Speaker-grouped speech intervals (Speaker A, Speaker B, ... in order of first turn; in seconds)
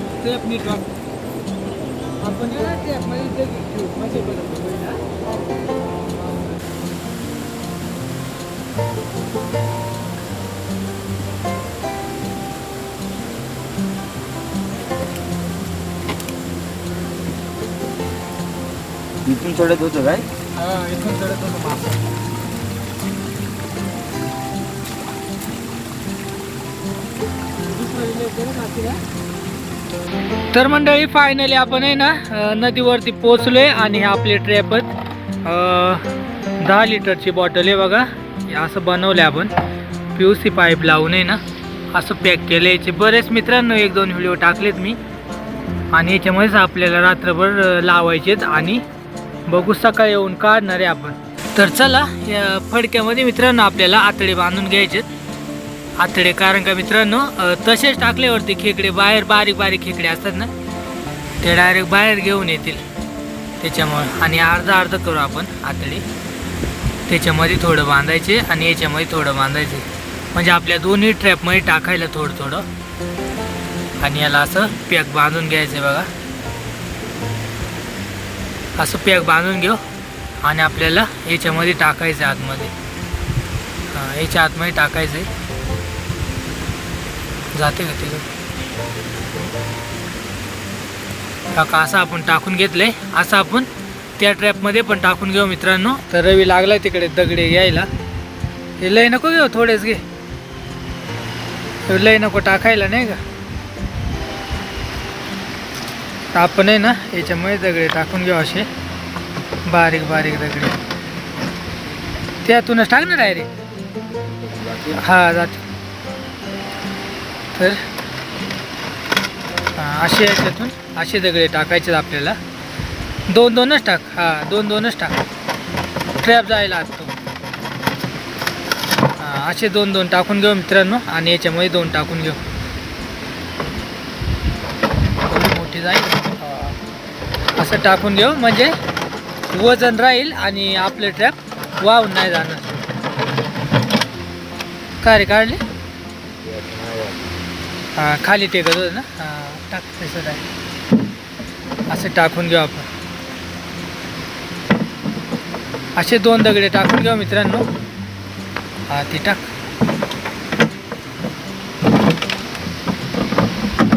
Speaker A: 0.2-0.9, 2.2-5.0, 20.5-22.0, 27.6-29.0, 30.5-34.9, 35.4-36.0, 36.6-39.5, 40.1-45.0, 45.9-48.8, 49.5-55.1, 56.0-60.5, 61.4-62.8, 63.6-66.0, 67.1-72.7, 74.0-76.1, 78.8-79.8, 80.4-82.7, 83.9-85.3, 87.5-88.2, 91.5-97.9, 98.8-100.0, 101.9-103.2, 106.3-108.7, 109.7-110.8, 112.4-113.5, 115.0-115.6, 117.6-117.8, 119.8-122.4, 123.3-125.2, 126.2-127.1, 129.2-132.4, 135.2-136.8, 137.6-138.7, 139.5-142.8, 145.0-145.6, 147.9-150.4, 151.9-152.9, 155.9-157.7, 158.9-159.4
Speaker B: 19.2-20.3, 114.2-115.0, 146.4-147.3